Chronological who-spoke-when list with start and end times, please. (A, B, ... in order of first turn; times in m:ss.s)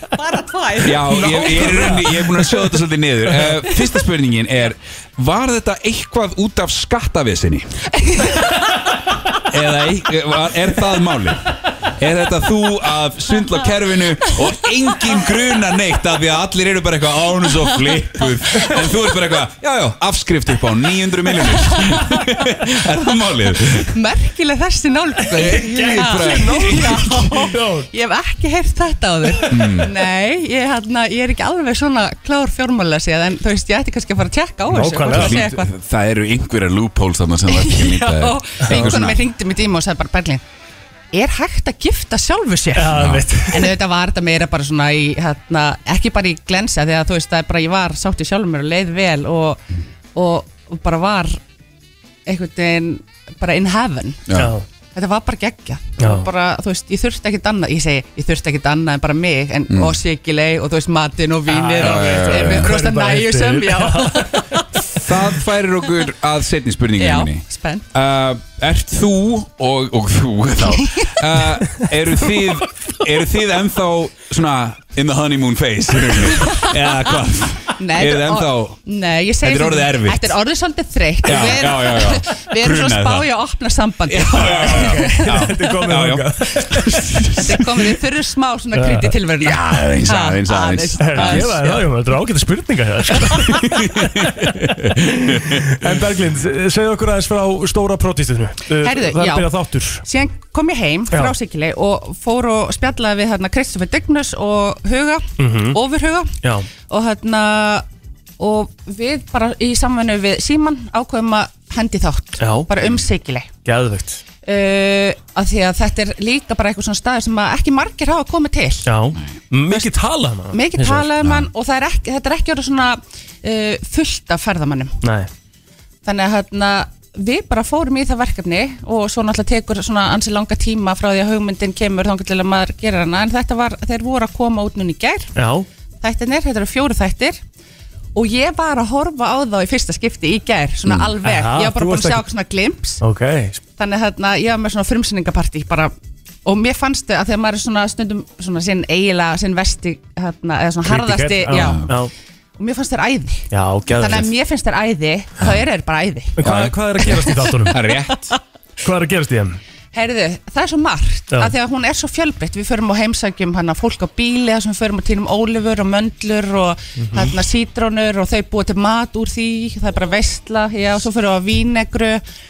0:00.2-0:01.0 A
0:00.8-0:07.7 B
0:01.0-0:03.8 C
0:08.1-0:08.5 A
0:09.4-0:24.0 B
0:21.7-0:22.0 A
0:23.7-0:35.7 A
0:25.2-0:27.9 C
0:25.3-0:27.1 B
0:29.5-0:29.9 B
0:34.7-0:35.4 C
0:35.0-0:39.2 B
0:37.5-0:40.4 A
0:38.6-0:38.9 C
0:41.1-0:43.0 A
0:42.7-0:43.7 C
0:42.9-0:43.2 B
0:43.5-0:49.6 A
0:50.1-0:51.4 A
0:52.3-0:54.2 A
0:54.3-0:54.5 B
0:54.3-0:54.6 C
0:54.9-1:04.6 A
0:56.0-0:56.3 C
0:59.7-1:00.0 B
1:01.5-1:04.6 C
1:01.8-1:02.7 B
1:05.0-1:18.8 B
1:07.0-1:07.8 A
1:10.6-1:11.1 A
1:16.4-1:16.7 A
1:17.8-1:25.4 A
1:19.4-1:20.4 B
1:21.2-1:23.3 B
1:24.1-1:27.8 B
1:24.4-1:27.3 C
1:27.4-1:31.7 A
1:28.7-1:29.1 C
1:29.4-1:31.6 B
1:31.0-1:40.0 C
1:33.3-1:35.9 B
1:38.8-1:39.5 A
1:40.0-1:46.3 A
1:45.4-1:45.8 C
1:46.4-1:46.7 C
1:46.9-1:47.8 A
1:48.4-1:53.5 A
1:52.4-1:52.7 C
1:53.6-1:54.2 C
1:54.4-1:58.8 A
1:58.8-2:01.1 C
2:00.5-2:05.0 A
2:01.2-2:01.5 B
2:05.0-2:05.3 C
2:06.0-2:15.3 A
2:15.4-2:15.6 C
2:16.0-2:17.4 A
2:18.1-2:23.0 A
2:20.8-2:21.1 B
2:21.2-2:22.2 C
2:23.0-2:23.6 C
2:23.8-2:25.9 A
2:26.4-2:32.0 A
2:30.8-2:32.1 C
2:31.5-2:32.0 B
2:32.6-2:36.3 A
2:33.5-2:34.3 C
2:36.4-2:37.8 C
2:36.4-2:38.4 B
2:38.8-2:39.6 C
2:39.9-2:52.2 A
2:47.0-2:47.3 C